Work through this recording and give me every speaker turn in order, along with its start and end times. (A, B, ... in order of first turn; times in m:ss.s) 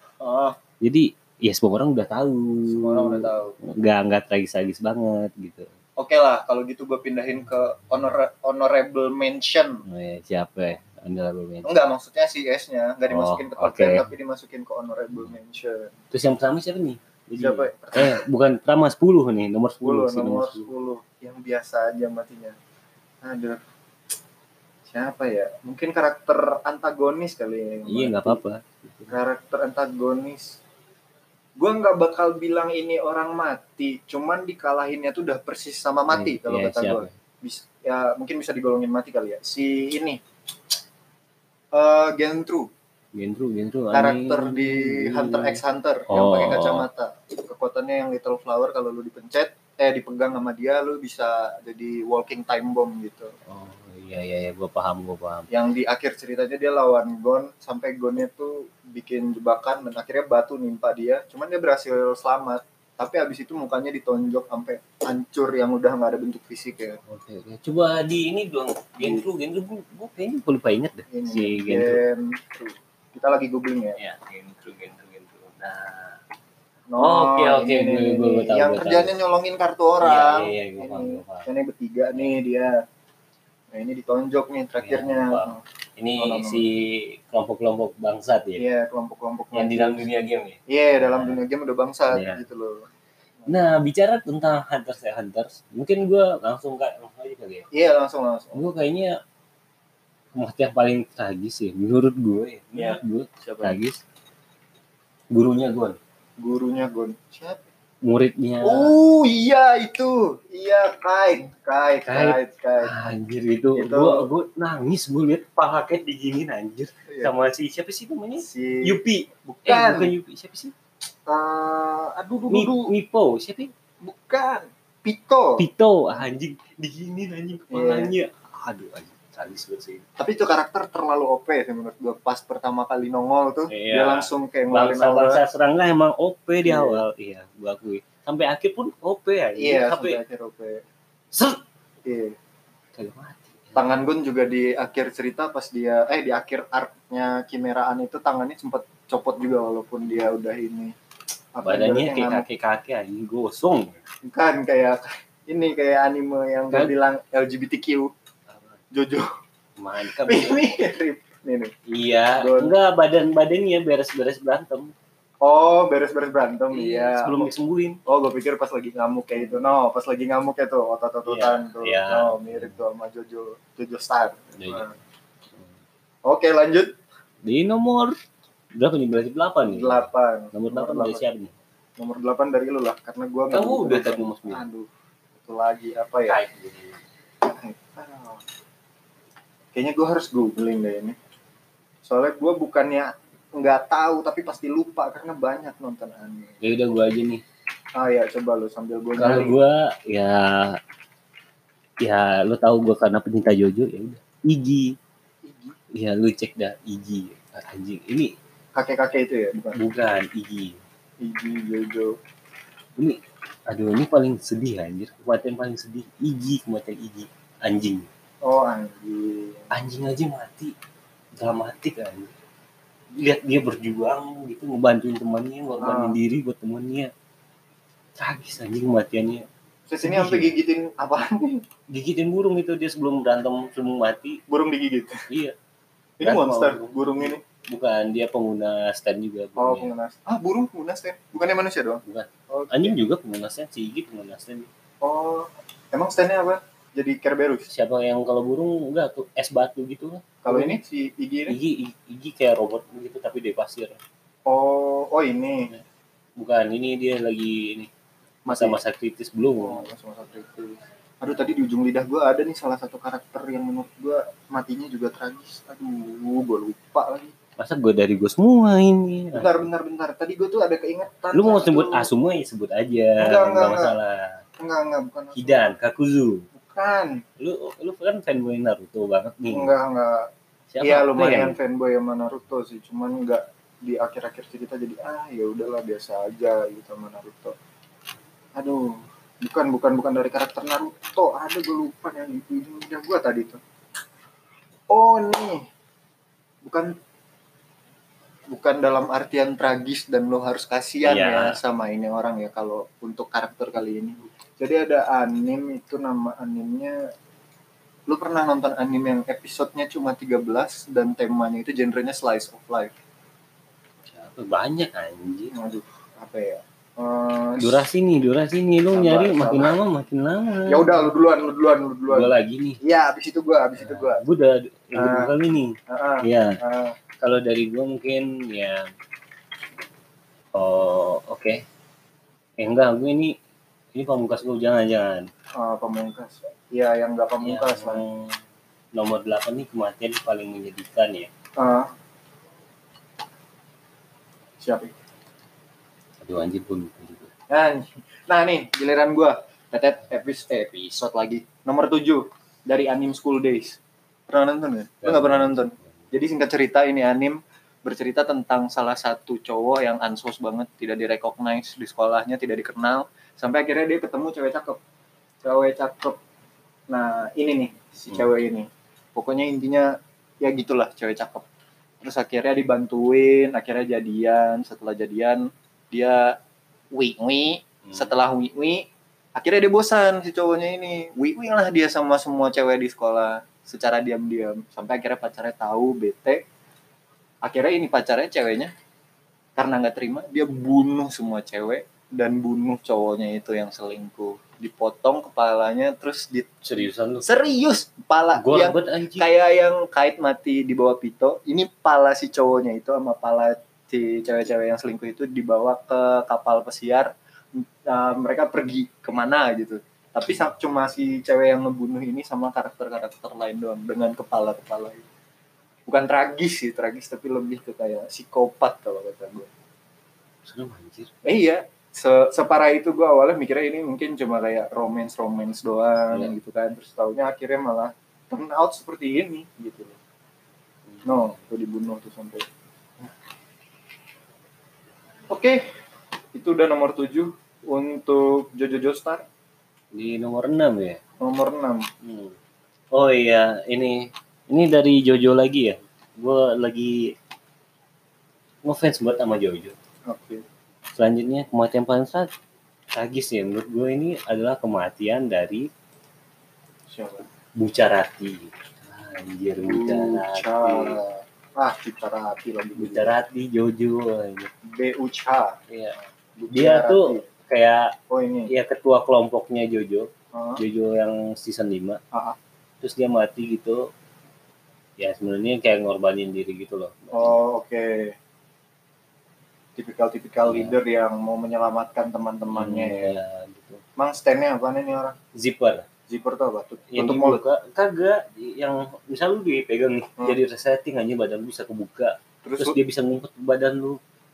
0:00.2-0:00.6 A
0:00.8-0:05.7 B
0:02.7-0:03.6 A
0:06.0-0:09.8 A
0:09.8-0:11.7 B
0:11.6-0:15.9 A
0:13.1-0:14.0 B
0:16.1-0:20.7 B
0:17.4-0:18.2 A
0:19.8-0:22.6 A
0:23.2-0:23.6 A
0:24.9-0:28.4 A
0:27.9-0:29.1 B
0:29.1-0:30.6 A
0:31.6-0:40.2 A
0:36.1-0:37.1 B
0:41.7-0:42.7 A
0:43.1-0:46.9 B
0:43.9-0:53.3 A
0:53.5-0:55.5 B
0:55.5-1:07.0 A
1:07.1-1:12.0 B
1:09.0-1:09.2 A
1:11.1-1:14.0 A
1:14.0-1:16.2 B
1:16.9-1:22.8 A
1:17.0-1:19.1 B
1:20.0-1:21.5 B
1:23.7-1:25.6 A
1:24.8-1:28.6 B
1:26.2-1:26.6 A
1:28.6-1:30.1 A
1:29.5-1:31.4 B
1:30.7-1:32.8 A
1:32.1-1:32.4 B
1:33.5-1:37.7 B
1:37.7-1:38.6 A
1:38.5-1:39.2 B
1:40.3-1:44.0 B
1:42.8-1:43.8 A
1:45.3-1:46.0 B
1:46.4-1:47.6 A
1:48.0-1:49.0 B
1:48.6-1:52.9 A
1:52.1-2:00.7 B
1:53.8-1:54.3 A
1:57.1-1:57.3 A
1:58.4-2:00.1 A
2:01.3-2:02.9 A
2:02.5-2:03.7 B
2:04.0-2:05.6 A
2:05.6-2:10.1 B
2:07.7-2:08.1 A
2:10.2-2:15.4 A
2:13.7-2:20.2 B
2:16.6-2:17.0 A
2:19.6-2:20.8 A
2:21.3-2:21.6 B
2:22.0-2:22.4 A
2:23.0-2:23.8 B
2:23.8-2:31.0 A
2:31.5-2:32.4 A
2:31.6-2:34.0 B
2:34.2-2:38.1 A
2:38.5-2:38.8 B
2:38.9-2:39.3 A
2:39.8-2:40.6 B
2:40.2-2:41.7 A
2:41.9-2:44.9 B
2:42.4-2:42.7 A
2:45.4-2:47.5 A
2:46.7-2:48.0 B
2:48.1-2:54.9 A
2:51.2-2:52.8 B
2:54.6-2:54.9 B
2:56.2-2:57.0 A
2:57.4-2:58.2 B
2:58.8-3:01.5 B
2:59.6-3:01.2 A
3:02.0-3:06.4 A
3:03.5-3:04.6 B
3:06.3-3:07.0 B
3:07.4-3:08.4 A
3:09.7-3:11.2 A
3:12.0-3:16.6 A
3:16.6-3:17.4 B
3:18.0-3:19.6 A
3:19.2-3:20.8 B
3:22.0-3:25.0 B
3:25.4-3:25.8 A
3:25.9-3:28.3 B
3:28.8-3:29.8 A
3:29.8-3:30.8 B
3:31.2-3:32.1 A
3:33.0-3:38.1 B
3:38.4-3:39.7 A
3:39.7-3:40.7 B
3:41.4-3:42.3 B
3:43.1-3:47.1 B
3:45.8-3:46.2 A
3:48.2-3:49.5 B
3:49.9-3:51.6 A
3:50.0-3:50.5 B
3:51.9-3:54.4 B
3:54.5-3:55.2 A
3:55.3-3:55.6 B
3:56.2-3:57.4 A
3:56.2-3:59.9 B
3:59.6-4:02.9 A
4:02.0-4:04.7 B
4:05.0-4:07.7 A
4:07.7-4:10.8 B
4:10.4-4:11.6 A
4:11.5-4:14.0 B
4:14.4-4:15.7 A
4:16.4-4:17.9 B
4:18.4-4:18.8 A
4:18.5-4:19.9 B
4:19.6-4:27.3 A
4:27.6-4:29.6 B
4:29.3-4:32.1 A
4:31.3-4:34.4 B
4:33.2-4:34.0 A
4:34.6-4:35.7 A
4:35.3-4:36.5 B
4:36.6-4:37.2 A
4:37.4-4:39.7 B
4:39.5-4:40.3 A
4:40.7-4:41.6 B
4:40.8-4:47.6 A
4:48.5-4:53.6 A
4:54.9-4:55.6 A
4:56.6-4:56.9 A
4:58.5-5:07.0 A
5:01.0-5:01.6 B
5:08.1-5:12.9 A
5:14.1-5:15.5 B
5:15.5-5:17.9 A
5:17.6-5:21.1 B
5:18.9-5:19.8 A
5:20.7-5:24.2 A
5:22.1-5:22.8 B
5:23.8-5:26.6 B
5:24.9-5:25.3 A
5:25.9-5:27.0 A
5:27.2-5:28.9 B
5:30.5-5:31.6 B
5:32.6-5:33.4 B
5:33.9-5:35.3 B
5:35.6-5:38.0 A
5:37.4-5:38.4 B
5:38.9-5:41.3 B
5:41.6-5:41.9 A
5:44.6-5:44.9 A
5:46.2-5:47.3 B
5:47.5-5:53.8 A
5:54.3-6:04.8 A
5:55.0-5:55.8 B
6:05.4-6:06.2 A
6:06.9-6:11.5 A
6:12.0-6:16.4 A
6:16.9-6:26.4 A
6:27.4-6:28.7 A
6:29.6-6:36.5 A
6:36.6-6:37.3 B
6:37.2-6:55.0 A
6:38.4-6:39.3 B
6:55.9-6:59.5 A
7:00.4-7:01.1 B
7:01.2-7:10.0 A
7:06.1-7:06.4 B
7:10.9-7:11.4 B
7:11.0-7:12.5 A
7:15.3-7:15.6 A
7:16.3-7:19.2 A
7:19.9-7:21.0 B
7:21.2-7:21.9 A
7:22.0-7:22.4 B
7:22.9-7:27.1 B
7:28.6-7:29.8 B
7:30.1-7:30.4 A
7:30.9-7:32.3 B
7:32.9-7:35.7 B
7:36.9-7:37.2 A
7:37.6-7:41.0 B
7:39.6-7:43.1 A
7:42.8-7:44.5 B
7:44.6-7:45.6 A
7:45.7-7:46.0 B
7:46.4-7:47.3 A
7:46.5-7:48.0 B
7:48.1-7:48.5 A
7:48.5-7:52.0 B
7:50.3-7:50.6 A
7:52.1-7:52.4 A
7:52.8-7:53.9 B
7:55.0-7:57.4 B
7:57.1-7:58.2 A
7:59.8-8:03.1 A
8:00.5-8:00.8 B
8:02.5-8:03.8 B
8:04.0-8:05.2 A
8:05.4-8:05.9 B
8:06.1-8:07.4 A
8:06.9-8:14.0 B
8:12.4-8:12.8 A